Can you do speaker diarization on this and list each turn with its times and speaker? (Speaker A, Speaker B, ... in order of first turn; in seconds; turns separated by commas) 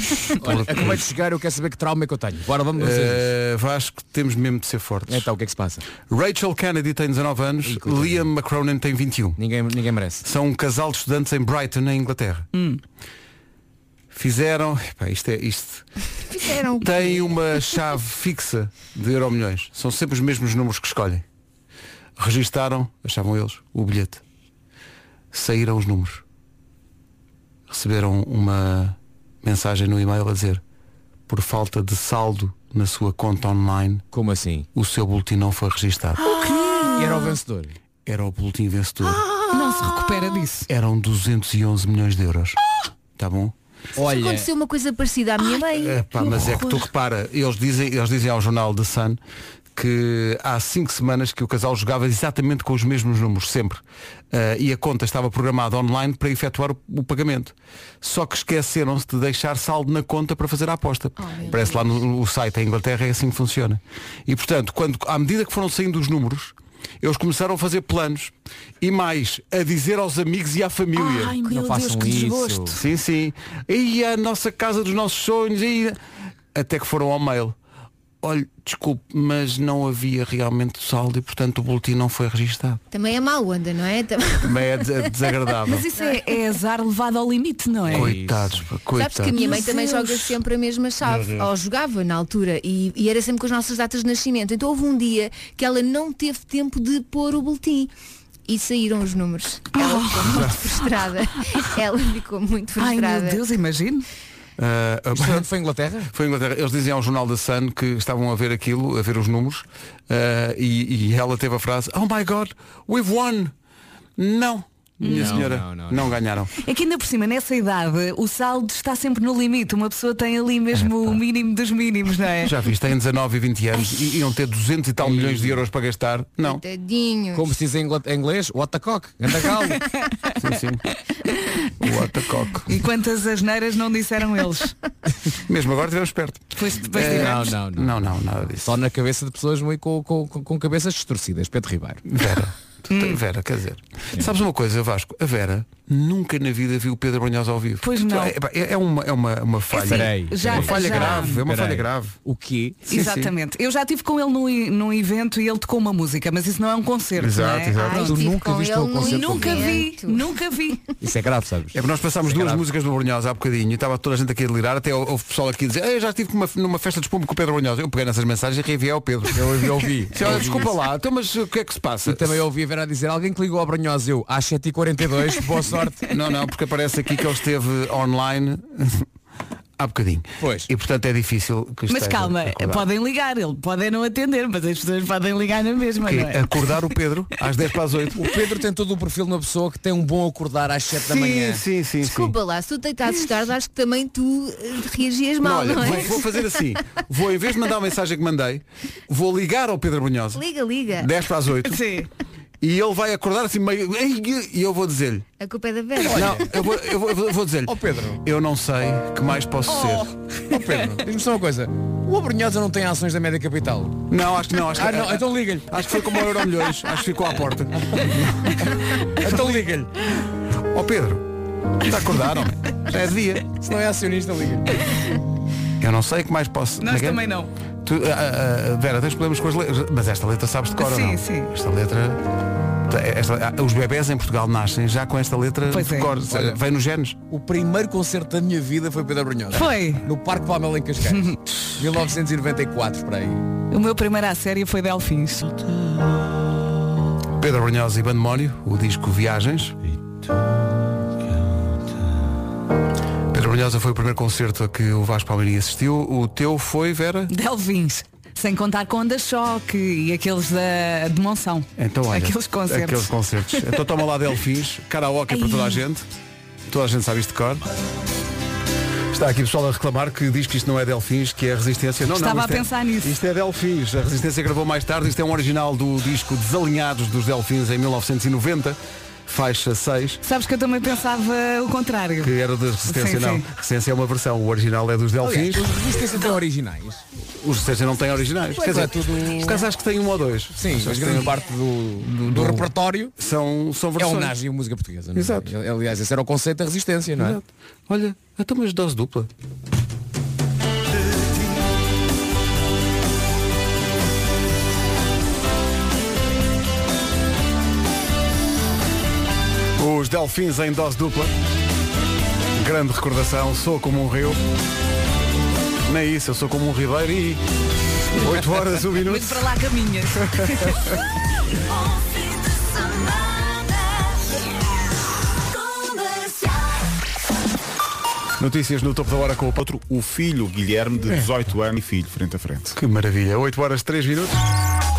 Speaker A: 0.4-1.1, Speaker B: 0.4-3.3, Speaker A: 2.8-5.3, Speaker B: 5.1-5.8, Speaker A: 6.1-9.4, Speaker B: 7.6-8.3, Speaker B: 9.4-10.2, Speaker A: 10.2-12.5, Speaker C: 12.5-12.8, Speaker A: 14.1-15.9, Speaker D: 16.3-17.4, Speaker A: 16.8-21.2, Speaker A: 22.2-24.2, Speaker A: 25.3-26.2, Speaker A: 27.7-30.6, Speaker A: 31.3-34.0, Speaker B: 34.1-34.7, Speaker A: 34.8-36.2, Speaker C: 36.2-37.3, Speaker B: 36.9-37.8, Speaker A: 38.1-39.2, Speaker C: 39.5-40.7, Speaker A: 40.7-42.6, Speaker A: 43.2-43.5, Speaker B: 44.0-44.5, Speaker D: 44.0-46.8, Speaker A: 45.7-49.2, Speaker A: 49.8-71.4, Speaker D: 61.2-61.9, Speaker C: 71.0-72.8, Speaker B: 71.4-72.8, Speaker A: 72.7-76.0, Speaker A: 76.5-77.5, Speaker A: 78.2-82.8, Speaker D: 82.9-84.8, Speaker A: 84.4-85.9, Speaker C: 85.7-88.2, Speaker B: 87.9-88.7, Speaker A: 87.9-89.7, Speaker D: 89.0-97.9, Speaker C: 89.3-90.4, Speaker D: 98.5-103.4, Speaker C: 99.8-100.6, Speaker A: 100.3-100.6, Speaker C: 102.8-104.1, Speaker A: 104.6-105.5, Speaker B: 105.1-106.1, Speaker A: 106.1-113.5, Speaker A: 114.2-116.5, Speaker C: 115.0-115.5, Speaker B: 115.1-116.2, Speaker C: 116.6-122.5, Speaker A: 120.7-121.2, Speaker A: 122.4-126.6, Speaker B: 125.0-125.6, Speaker D: 126.4-127.5, Speaker B: 127.3-129.8, Speaker A: 130.4-130.8, Speaker A: 131.8-132.7, Speaker C: 132.7-134.8, Speaker A: 135.5-138.8, Speaker C: 136.6-137.6, Speaker B: 137.0-142.0, Speaker A: 142.1-152.2, Speaker C: 142.9-143.2, Speaker C: 147.8-148.3, Speaker C: 149.7-151.4, Speaker B: 149.9-152.8, Speaker A: 152.9-153.3, Speaker C: 152.9-158.2, Speaker A: 157.2-158.2, Speaker D: 157.8-160.3, Speaker B: 158.0-159.7, Speaker C: 159.0-160.8, Speaker B: 161.0-162.7, Speaker A: 161.7-172.4, Speaker B: 169.3-170.8, Speaker B: 172.1-176.1, Speaker A: 176.0-179.1, Speaker A: 179.8-182.9, Speaker B: 180.4-180.7, Speaker C: 181.9-186.4, Speaker A: 186.1-188.3, Speaker B: 188.2-191.6, Speaker A: 190.9-192.4, Speaker D: 192.0-196.4, Speaker A: 195.4-200.4, Speaker D: 200.3-201.1, Speaker A: 201.0-201.8, Speaker C: 201.7-202.1, Speaker A: 202.6-205.2, Speaker D: 205.4-206.4, Speaker B: 206.1-206.5, Speaker A: 206.1-211.0, Speaker B: 207.7-208.2, Speaker B: 210.5-214.0, Speaker A: 214.1-218.7, Speaker B: 214.8-215.7, Speaker B: 219.2-219.9, Speaker A: 219.2-219.7, Speaker A: 220.7-221.2, Speaker A: 221.8-223.5, Speaker B: 223.5-224.8, Speaker A: 225.8-227.2, Speaker C: 226.8-227.5, Speaker A: 227.8-232.2, Speaker C: 230.8-231.5, Speaker A: 232.9-237.2, Speaker C: 235.7-236.1, Speaker B: 236.3-236.6, Speaker B: 237.3-243.4, Speaker C: 239.5-240.1, Speaker C: 241.1-241.4, Speaker C: 243.7-245.5, Speaker A: 247.4-249.8, Speaker A: 253.3-257.3, Speaker C: 257.3-263.8, Speaker A: 261.8-266.1, Speaker C: 265.3-265.8, Speaker A: 266.7-267.6, Speaker A: 269.1-280.2, Speaker C: 272.1-273.2, Speaker C: 280.2-282.3, Speaker A: 282.2-285.7, Speaker C: 282.9-283.5, Speaker B: 285.2-287.0, Speaker A: 287.4-291.4, Speaker B: 288.6-289.7, Speaker B: 290.6-293.1, Speaker A: 292.0-294.4, Speaker B: 294.0-297.4, Speaker A: 295.1-295.5, Speaker A: 297.2-299.3, Speaker A: 309.8-311.3, Speaker A: 312.6-314.4, Speaker A: 315.9-317.4, Speaker A: 318.2-319.4, Speaker C: 319.1-320.8, Speaker A: 328.4-329.8, Speaker E: 329.6-332.8, Speaker A: 331.1-331.5, Speaker A: 332.8-334.4